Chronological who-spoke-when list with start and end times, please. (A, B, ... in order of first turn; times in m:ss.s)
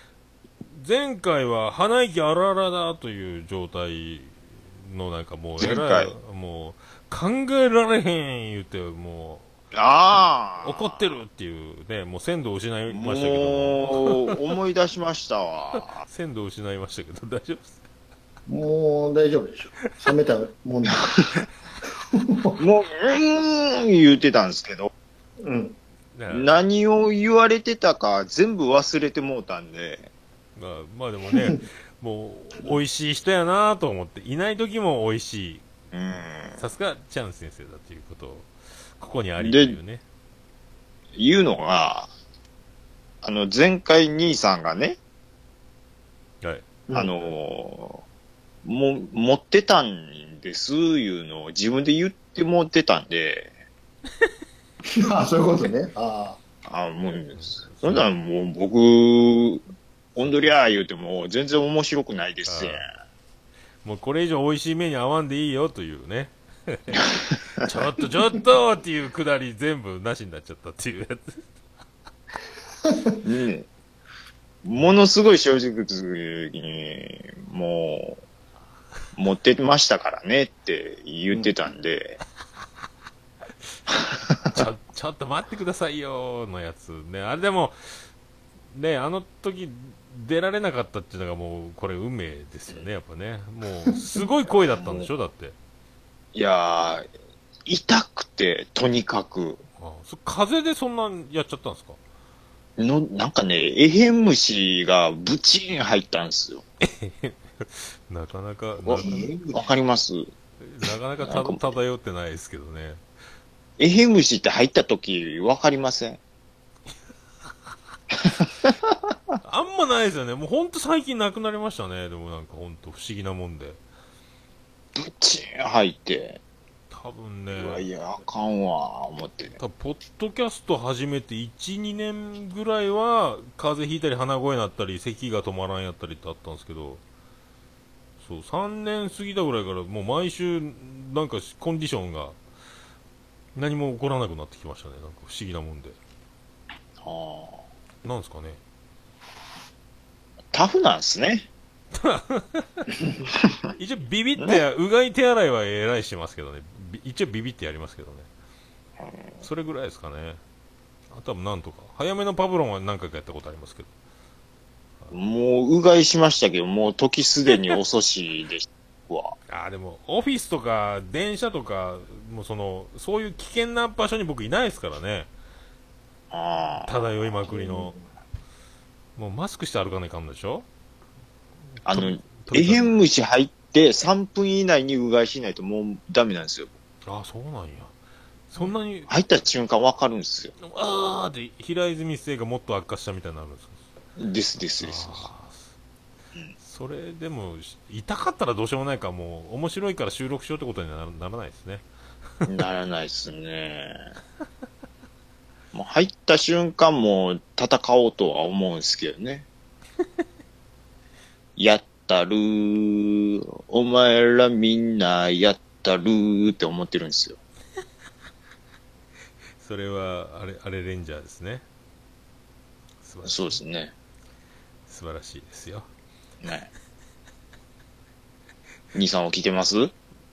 0:00.7-0:09.5 A
0:05.6-0:06.2 B
0:09.7-0:11.0 B
0:10.6-0:14.4 A
0:12.9-0:16.0 B
0:16.0-0:17.8 A
0:18.5-0:21.1 C
0:22.1-0:22.6 C
0:22.6-0:24.9 B
0:25.4-0:25.8 C
0:26.1-0:26.6 A
0:26.3-0:30.1 B
0:30.6-0:35.6 A
0:35.9-0:36.6 B
0:36.6-0:40.0 A
0:39.4-0:39.8 B
0:41.2-0:42.1 B
0:43.2-0:45.0 B
0:46.4-0:46.7 A
0:46.9-0:47.1 C
0:46.9-0:48.0 B
0:48.6-0:53.6 B
0:55.0-0:56.4 C
0:56.7-0:59.6 B
0:57.4-0:58.0 A
1:00.2-1:02.8 B
1:00.2-1:00.5 A
1:02.5-1:02.8 A
1:03.8-1:07.1 A
1:07.1-1:07.7 B
1:07.6-1:11.4 A
1:12.9-1:13.2 C
1:13.2-1:13.7 B
1:14.6-1:18.2 B
1:19.2-1:22.2 B
1:24.4-1:27.8 A
1:28.7-1:35.6 A
1:34.7-1:35.1 B
1:36.3-1:37.1 B
1:37.7-1:39.6 B
1:39.8-1:42.0 A
1:42.8-1:46.6 B
1:46.8-1:49.3 A
1:48.8-1:50.3 B
1:49.0-1:49.6 C
1:50.6-1:53.0 A
1:51.2-1:51.6 B
1:53.8-1:56.2 B
1:58.1-1:59.0 B
1:59.4-2:03.8 A
2:05.0-2:06.4 B
2:06.9-2:07.8 A
2:07.5-2:09.6 B
2:09.6-2:17.0 A
2:18.2-2:22.4 A
2:23.6-2:26.0 A
2:27.0-2:27.6 B
2:28.0-2:28.6 A
2:30.5-2:31.5 B
2:31.9-2:32.9 A
2:33.8-2:38.3 A
2:39.0-2:39.4 B
2:39.4-2:40.4 A
2:41.1-2:43.9 A
2:45.1-2:49.4 B
2:49.5-2:55.3 A
2:56.3-2:57.4 B
2:56.8-2:58.0 A
2:57.5-2:58.0 C
2:59.2-3:00.7 A
3:01.8-3:03.0 A
3:01.9-3:06.7 B
3:07.1-3:07.9 A
3:08.5-3:09.1 A
3:08.6-3:10.6 B
3:10.6-3:13.8 A
3:14.2-3:15.3 B
3:14.8-3:15.7 A
3:16.6-3:21.8 A
3:22.5-3:24.1 B
3:25.7-3:29.5 B
3:31.6-3:37.4 B
3:39.6-3:41.6 A
3:43.0-3:43.6 A
3:43.2-3:43.9 B
3:44.9-3:45.9 A
3:46.4-3:46.7 B
3:48.9-3:49.9 B